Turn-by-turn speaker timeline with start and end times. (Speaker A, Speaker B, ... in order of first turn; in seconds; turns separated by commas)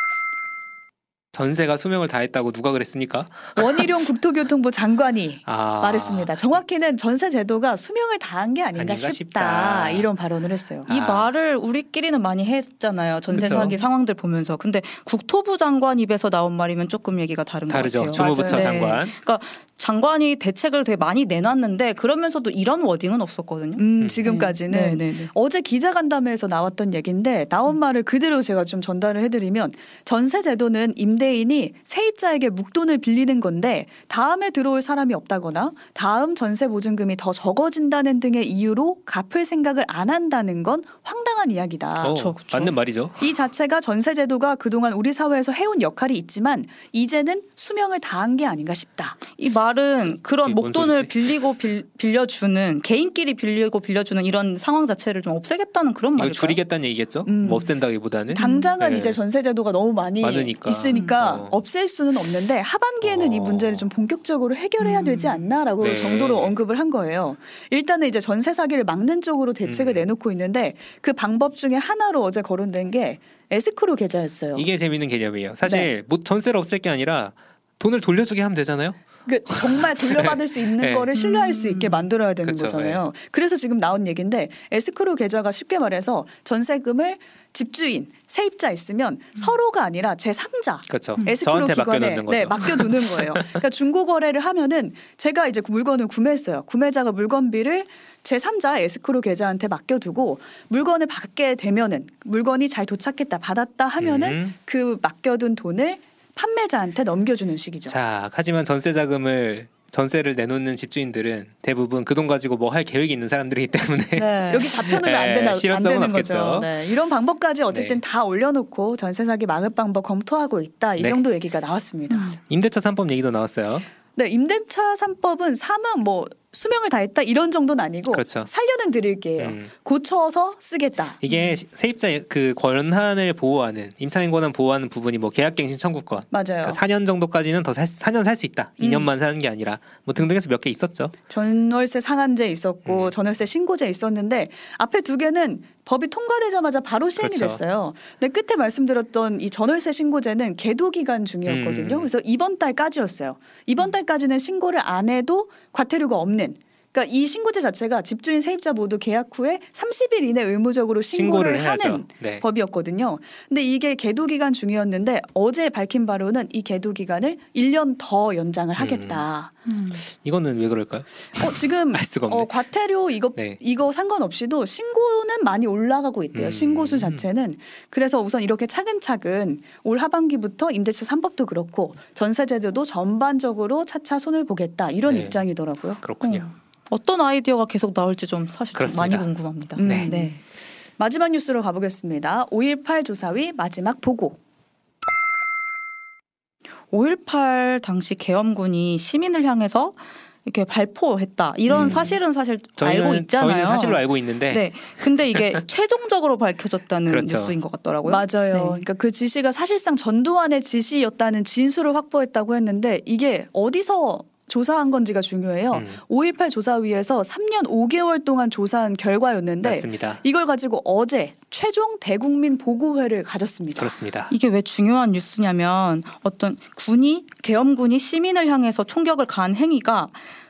Speaker A: 1.3-3.9, Speaker B: 3.6-10.9, Speaker A: 5.5-6.4, Speaker A: 8.8-10.1, Speaker A: 10.9-11.3, Speaker C: 10.9-25.3, Speaker A: 13.3-13.8, Speaker A: 17.7-19.1, Speaker B: 18.1-18.8, Speaker B: 23.8-49.2, Speaker A: 24.0-24.3, Speaker C: 42.0-42.7, Speaker A: 42.0-43.3, Speaker C: 49.4-56.6, Speaker A: 50.1-51.2, Speaker A: 56.2-59.2, Speaker B: 57.3-57.7, Speaker B: 58.3-74.7, Speaker C: 58.3-58.7, Speaker A: 60.2-61.6, Speaker A: 63.0-63.9, Speaker C: 64.8-65.4, Speaker A: 65.8-66.6, Speaker A: 69.7-70.1, Speaker A: 74.5-80.2, Speaker B: 75.6-75.9, Speaker B: 79.3-108.0, Speaker A: 80.8-81.1, Speaker C: 81.1-82.1, Speaker A: 82.4-83.0, Speaker A: 90.9-93.5, Speaker A: 104.0-104.5, Speaker A: 107.9-116.8, Speaker C: 114.2-114.8, Speaker B: 114.5-122.4, Speaker A: 117.7-118.0, Speaker C: 122.1-122.4, Speaker A: 122.5-123.9, Speaker B: 124.2-131.2, Speaker A: 128.1-128.5, Speaker A: 129.4-129.7, Speaker A: 131.2-141.1, Speaker B: 136.3-136.8, Speaker B: 138.8-139.1, Speaker B: 141.3-169.6, Speaker A: 142.8-143.1, Speaker A: 147.2-147.6, Speaker A: 151.4-152.1, Speaker A: 161.1-162.4, Speaker A: 168.8-169.2, Speaker A: 170.0-172.5, Speaker B: 171.4-186.0, Speaker A: 176.3-177.2, Speaker A: 185.1-185.4, Speaker A: 186.0-186.5, Speaker C: 186.2-190.4, Speaker A: 188.8-190.1, Speaker B: 189.8-190.3, Speaker B: 191.0-194.4, Speaker C: 196.9-208.8, Speaker A: 201.7-202.2, Speaker A: 202.8-204.8, Speaker A: 207.1-207.6, Speaker B: 208.1-223.9, Speaker A: 215.7-216.0, Speaker A: 219.6-220.2, Speaker A: 223.8-224.3, Speaker C: 224.3-230.2